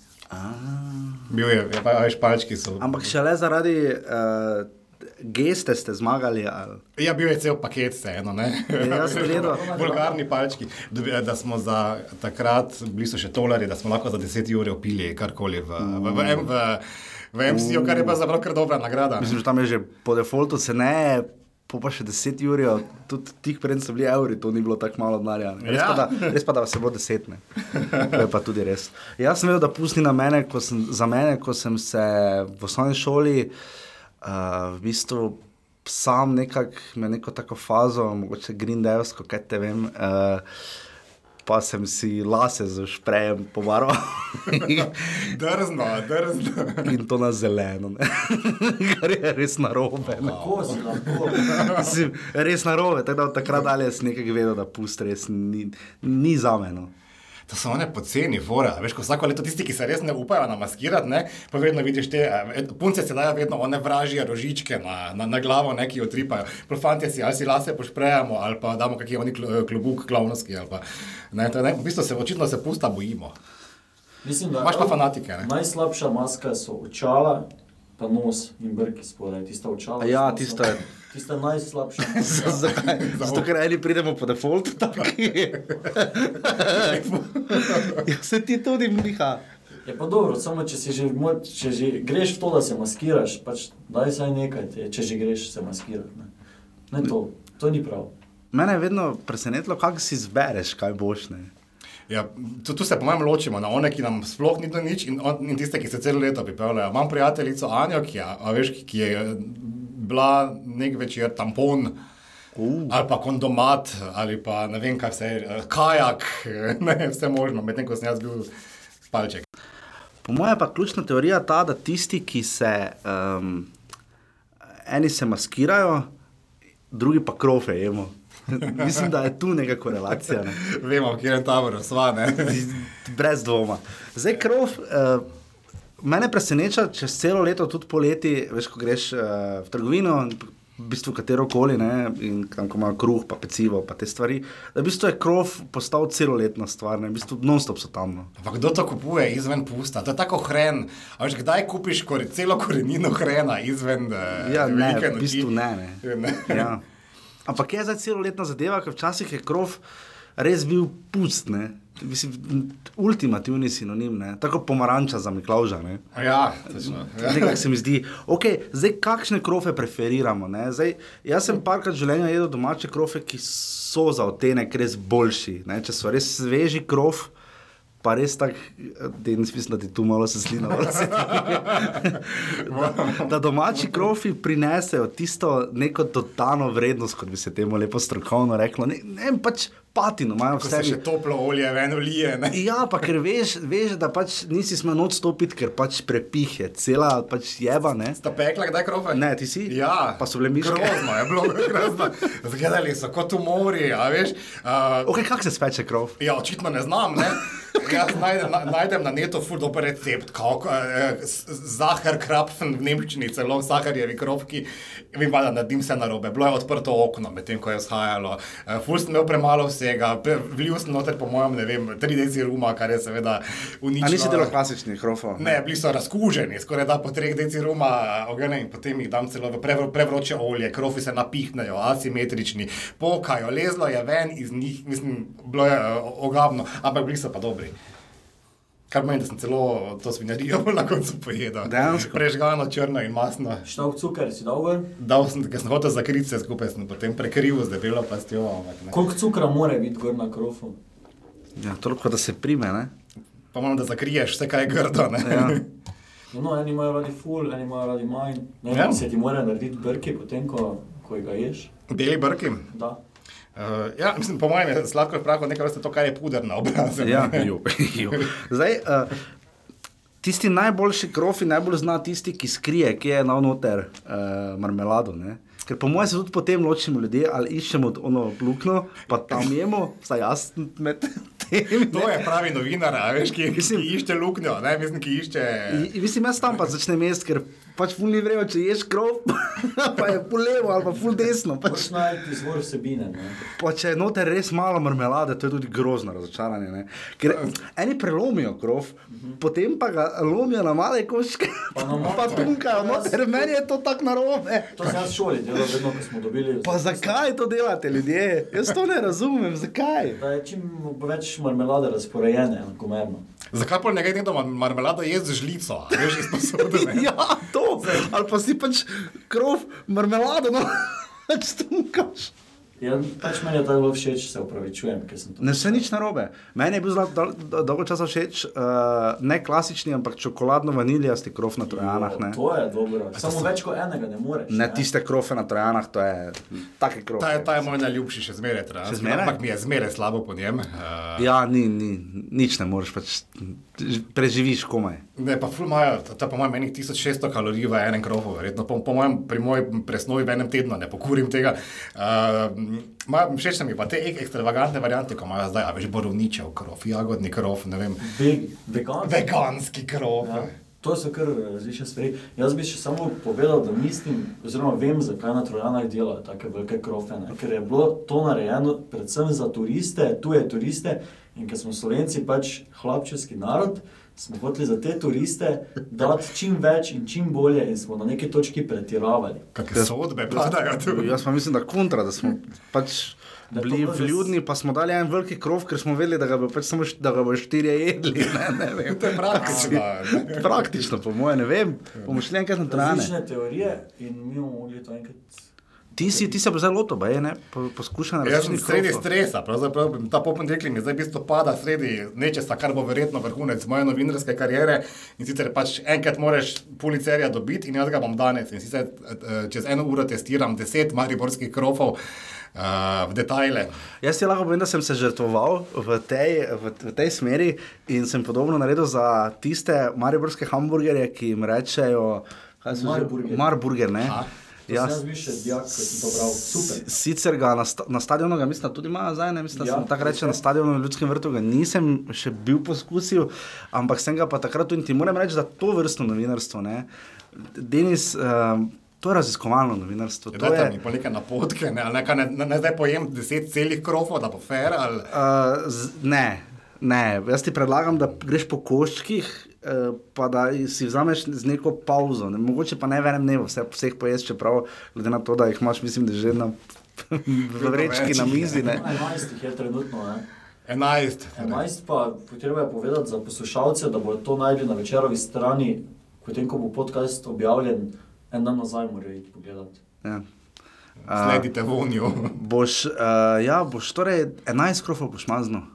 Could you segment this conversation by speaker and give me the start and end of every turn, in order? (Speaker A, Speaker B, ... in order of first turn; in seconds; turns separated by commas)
Speaker A: 0.3-1.3, Speaker B: 1.3-3.1, Speaker A: 2.8-6.8, Speaker B: 7.0-19.4, Speaker A: 8.8-9.8, Speaker C: 9.0-10.2, Speaker A: 15.8-16.5, Speaker A: 17.5-18.2, Speaker A: 19.2-33.5, Speaker B: 25.6-26.4, Speaker B: 27.8-28.1, Speaker A: 34.2-40.4, Speaker A: 41.4-45.2, Speaker B: 44.5-46.9, Speaker A: 46.8-50.6, Speaker B: 50.1-52.0, Speaker C: 50.2-51.6, Speaker A: 51.3-56.9, Speaker B: 57.5-73.3, Speaker C: 74.2-77.5, Speaker B: 74.6-75.5, Speaker C: 78.0-82.8, Speaker A: 80.0-80.8, Speaker A: 82.0-89.4, Speaker B: 82.3-83.5, Speaker B: 86.4-88.0, Speaker C: 89.8-96.3, Speaker C: 96.9-98.1, Speaker A: 98.5-101.5, Speaker B: 102.1-111.9, Speaker A: 112.5-112.9, Speaker B: 112.9-118.5, Speaker B: 119.1-119.4, Speaker A: 120.2-123.7, Speaker A: 124.8-126.1, Speaker A: 126.9-130.6, Speaker B: 130.5-132.7, Speaker A: 132.4-135.2, Speaker A: 136.0-148.3, Speaker B: 148.4-155.5, Speaker A: 154.3-156.8, Speaker B: 156.0-156.7, Speaker A: 157.4-159.8, Speaker A: 160.4-166.0, Speaker B: 166.1-167.6, Speaker A: 166.8-177.3, Speaker A: 178.0-191.0, Speaker B: 181.2-183.9, Speaker B: 190.6-192.7, Speaker A: 192.5-198.2, Speaker B: 198.2-205.1, Speaker A: 199.1-201.3, Speaker A: 205.1-206.2, Speaker B: 206.2-224.5, Speaker A: 224.0-225.6, Speaker B: 225.4-237.7, Speaker B: 238.9-243.6, Speaker A: 241.6-242.2, Speaker C: 243.6-244.9, Speaker B: 245.0-249.0, Speaker C: 248.9-250.8, Speaker A: 251.6-252.9, Speaker B: 253.5-255.7, Speaker A: 255.2-255.6, Speaker C: 256.3-261.7, Speaker B: 258.7-259.0, Speaker B: 261.9-262.7, Speaker C: 262.7-263.0, Speaker B: 263.6-267.5, Speaker A: 267.0-269.2, Speaker A: 270.2-282.3, Speaker B: 281.8-285.9, Speaker A: 283.5-283.9, Speaker A: 285.7-292.0, Speaker C: 291.6-293.5, Speaker A: 293.6-305.0, Speaker C: 299.1-299.4, Speaker C: 301.7-303.5, Speaker C: 304.7-307.2, Speaker A: 306.6-310.2, Speaker C: 310.1-313.2, Speaker B: 313.5-317.1, Speaker A: 316.3-322.3, Speaker C: 322.8-325.9, Speaker A: 325.4-332.4, Speaker C: 331.7-334.9, Speaker A: 334.5-337.7, Speaker B: 337.2-341.3, Speaker A: 338.8-339.4, Speaker A: 341.2-345.0, Speaker B: 345.2-358.1, Speaker C: 358.0-359.3, Speaker B: 359.0-360.5, Speaker C: 360.2-379.4, Speaker B: 379.5-381.2, Speaker A: 379.7-393.1, Speaker C: 383.5-384.3, Speaker B: 388.8-390.9, Speaker C: 389.3-389.8, Speaker C: 392.6-395.4, Speaker C: 395.9-396.4, Speaker A: 396.0-399.1, Speaker B: 398.2-411.9, Speaker B: 412.5-413.7, Speaker A: 414.0-425.0, Speaker C: 422.7-423.5, Speaker B: 424.0-424.3, Speaker C: 424.7-426.8, Speaker A: 426.6-440.8, Speaker C: 429.5-430.4, Speaker B: 440.3-445.1, Speaker A: 445.1-458.9, Speaker B: 457.5-458.8, Speaker C: 458.6-460.2, Speaker B: 460.7-461.7, Speaker C: 461.4-469.8, Speaker B: 471.1-472.4, Speaker A: 471.1-471.4, Speaker A: 472.3-475.6